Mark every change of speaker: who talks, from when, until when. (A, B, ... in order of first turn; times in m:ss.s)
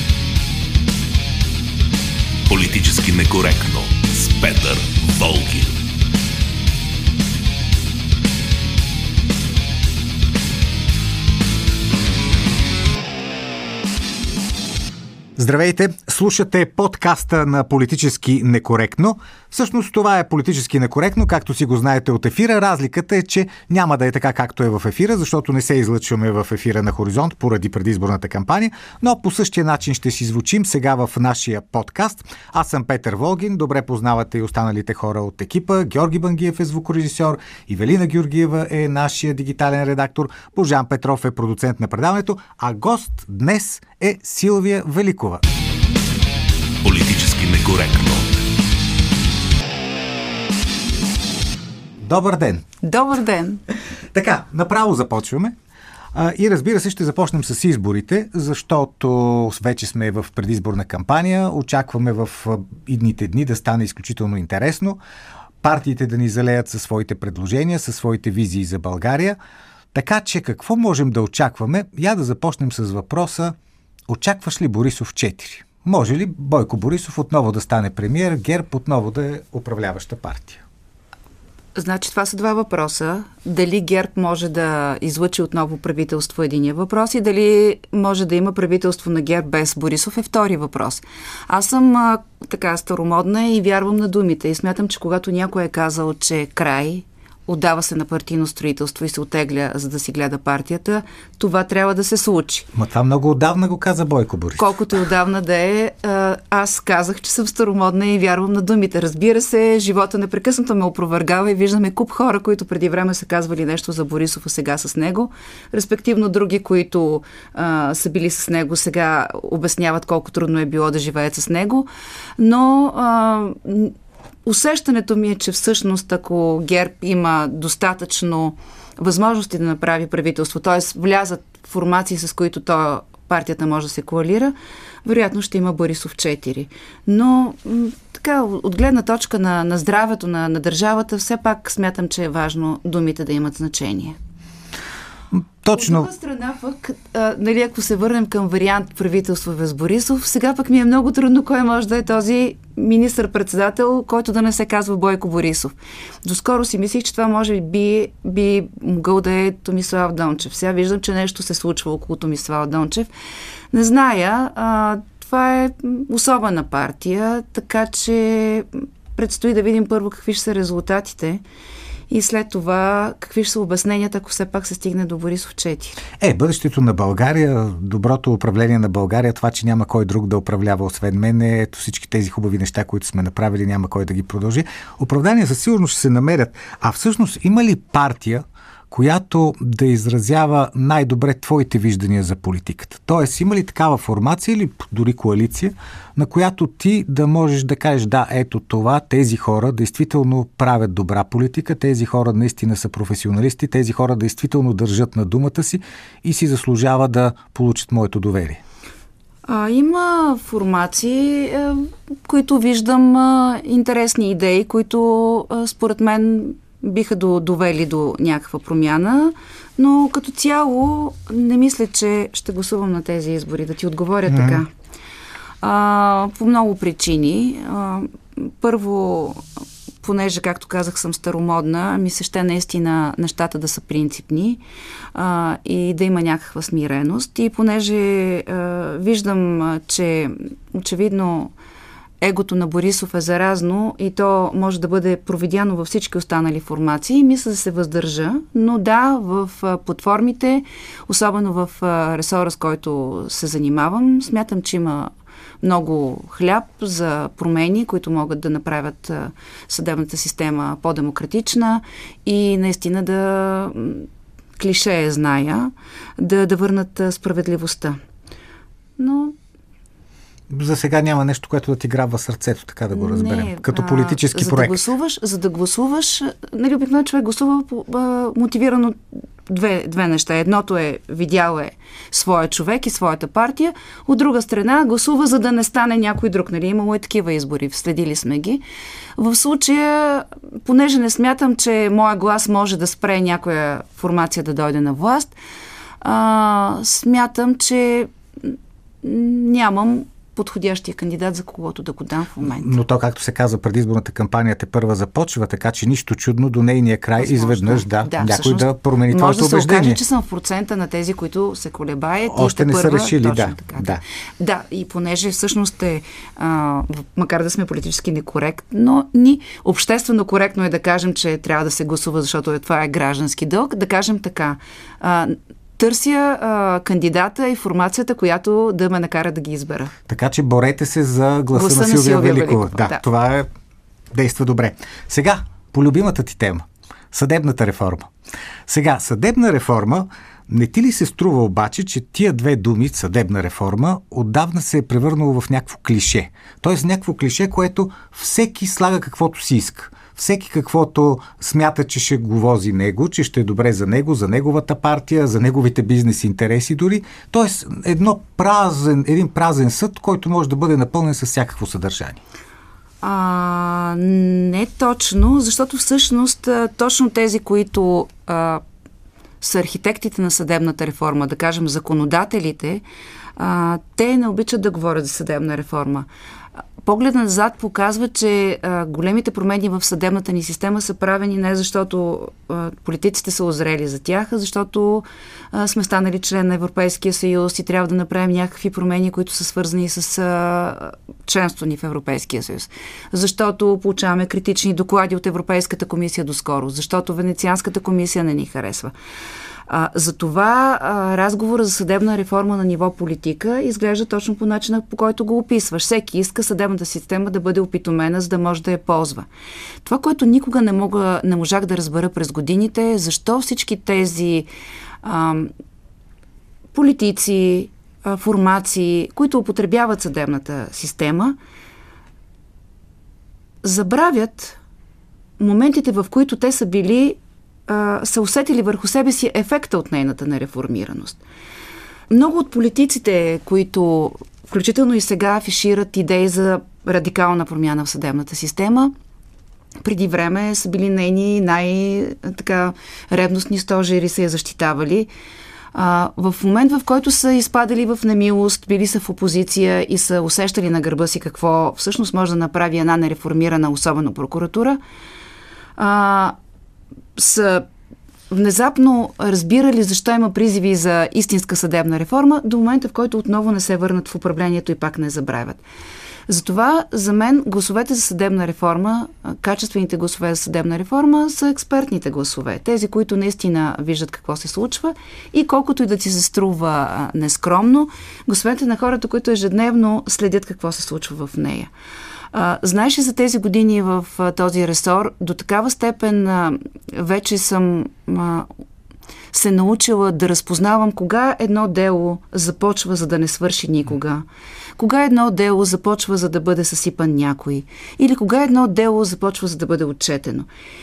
0:02.5-0:05.8 A
0:15.4-0:45.4 B
0:46.8-0:48.4 A
0:52.0-0:52.6 B
0:52.8-0:53.6 C
0:54.1-0:55.5 B
0:56.1-1:05.0 B
1:05.6-1:09.4 B
1:09.9-1:13.5 B
1:14.1-1:20.6 B
1:21.7-1:42.7 C
1:42.7-1:44.7 B
1:44.6-2:01.9 C
2:02.4-2:14.5 C
2:15.0-2:24.2 C
2:25.3-2:26.1 B
2:25.7-2:43.1 C
2:43.7-2:51.4 C
2:52.1-2:56.0 C
2:56.2-3:28.6 B
3:29.5-3:44.7 C
3:44.3-3:44.6 B
3:45.6-3:49.4 C
3:50.0-3:54.6 C
3:55.1-4:01.5 C
4:02.2-4:15.1 C
4:15.6-4:24.1 C
4:24.6-4:28.0 C
4:29.0-4:29.4 C
4:30.5-4:34.8 B
4:32.9-4:48.6 C
4:49.2-4:55.3 C
4:56.0-5:02.7 C
5:02.4-5:10.0 B
5:07.2-5:29.9 C
5:12.3-5:14.0 B
5:30.1-5:33.5 B
5:31.5-5:33.0 C
5:34.1-5:38.1 B
5:38.7-6:02.2 B
6:03.0-6:08.6 C
6:09.4-6:12.8 C
6:13.4-6:16.1 C
6:16.8-6:38.9 C
6:39.7-6:49.3 C
6:49.8-6:54.5 C
6:55.0-6:55.5 C
6:56.7-7:01.4 C
7:03.6-7:04.6 C
7:05.4-7:11.2 C
7:12.1-7:18.9 C
7:19.8-7:25.1 C
7:25.7-7:34.8 C
7:35.8-7:36.3 C
7:37.2-7:37.7 C
7:38.3-7:45.6 C
7:46.3-8:01.7 C
8:02.3-8:08.5 C
8:09.3-8:14.2 C
8:14.8-8:20.5 C